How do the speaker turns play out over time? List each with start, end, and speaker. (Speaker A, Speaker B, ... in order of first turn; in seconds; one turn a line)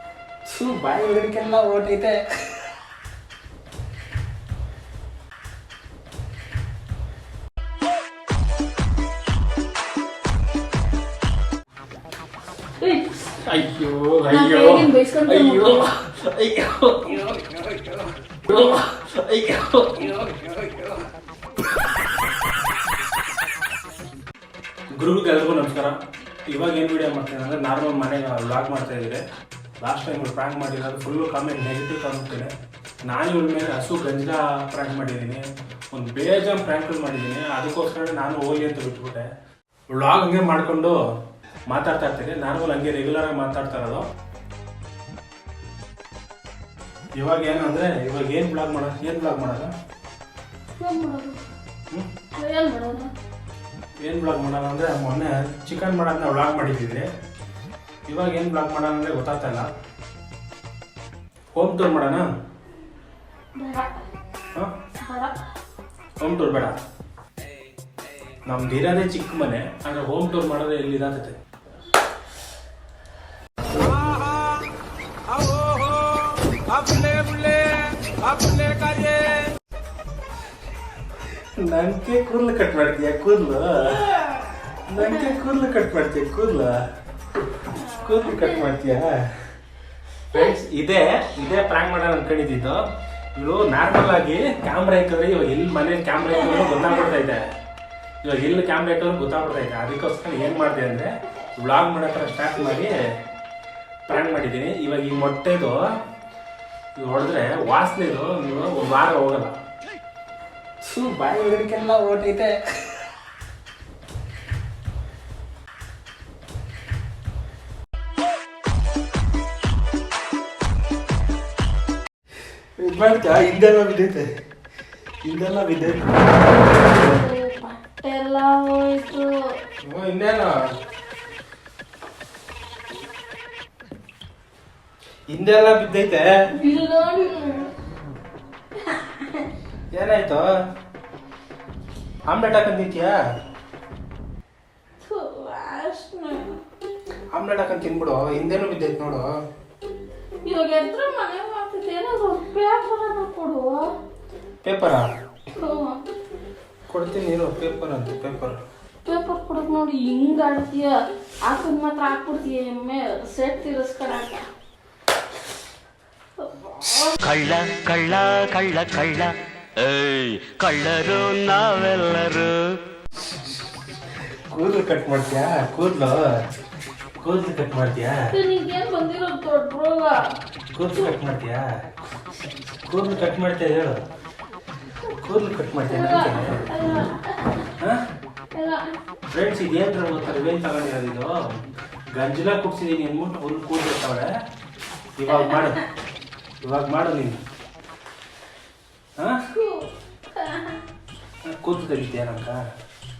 Speaker A: 0.5-2.2
Speaker B: 12.8-13.3
Speaker A: 13.4-17.6
Speaker B: 14.3-15.8
Speaker A: 18.5-20.9
Speaker A: 24.9-26.0
Speaker A: 26.5-29.2
Speaker A: 29.8-32.5
Speaker A: 33.1-39.2
Speaker A: 39.9-41.0
Speaker A: 41.7-44.0
Speaker A: 47.2-49.7
Speaker B: 50.8-51.4
Speaker B: 52.3-53.1
Speaker A: 54.0-57.1
Speaker A: 58.1-59.7
Speaker A: 61.5-62.2
Speaker B: 63.6-63.9
Speaker B: 65.0-65.4
Speaker A: 66.2-66.8
Speaker A: 68.5-71.4
Speaker A: 73.8-74.5
Speaker A: 75.4-79.3
Speaker A: 81.6-84.1
Speaker B: 84.0-84.4
Speaker A: 84.9-86.8
Speaker B: 85.0-85.3
Speaker B: 87.7-88.8
Speaker A: 88.0-89.2
Speaker A: 90.3-92.8
Speaker A: 93.3-97.5
Speaker B: 96.4-97.1
Speaker A: 98.2-103.0
Speaker A: 104.0-105.8
Speaker A: 107.0-109.5
Speaker A: 110.8-112.5
Speaker A: 122.8-124.3
Speaker A: 125.2-126.4
Speaker B: 126.6-129.3
Speaker A: 129.8-130.5
Speaker A: 135.3-136.3
Speaker B: 136.6-137.7
Speaker B: 138.8-139.5
Speaker A: 139.9-140.4
Speaker A: 142.3-143.2
Speaker B: 145.0-146.6
Speaker A: 147.3-149.2
Speaker B: 150.4-153.8
Speaker A: 154.6-155.0
Speaker B: 155.5-156.0
Speaker A: 156.9-158.6
Speaker B: 159.1-164.4
Speaker B: 166.4-167.2
Speaker C: 167.2-172.6
Speaker A: 173.2-176.3
Speaker A: 177.2-178.2
Speaker B: 178.3-180.2
Speaker A: 180.7-181.7
Speaker A: 182.9-184.0
Speaker A: 185.2-186.7
Speaker B: 185.9-187.7
Speaker B: 188.5-189.0
Speaker A: 189.3-191.6
Speaker A: 192.1-194.3
Speaker A: 195.2-195.8
Speaker B: 195.3-195.9
Speaker A: 196.6-197.4
Speaker B: 199.5-200.8
Speaker A: 201.4-202.6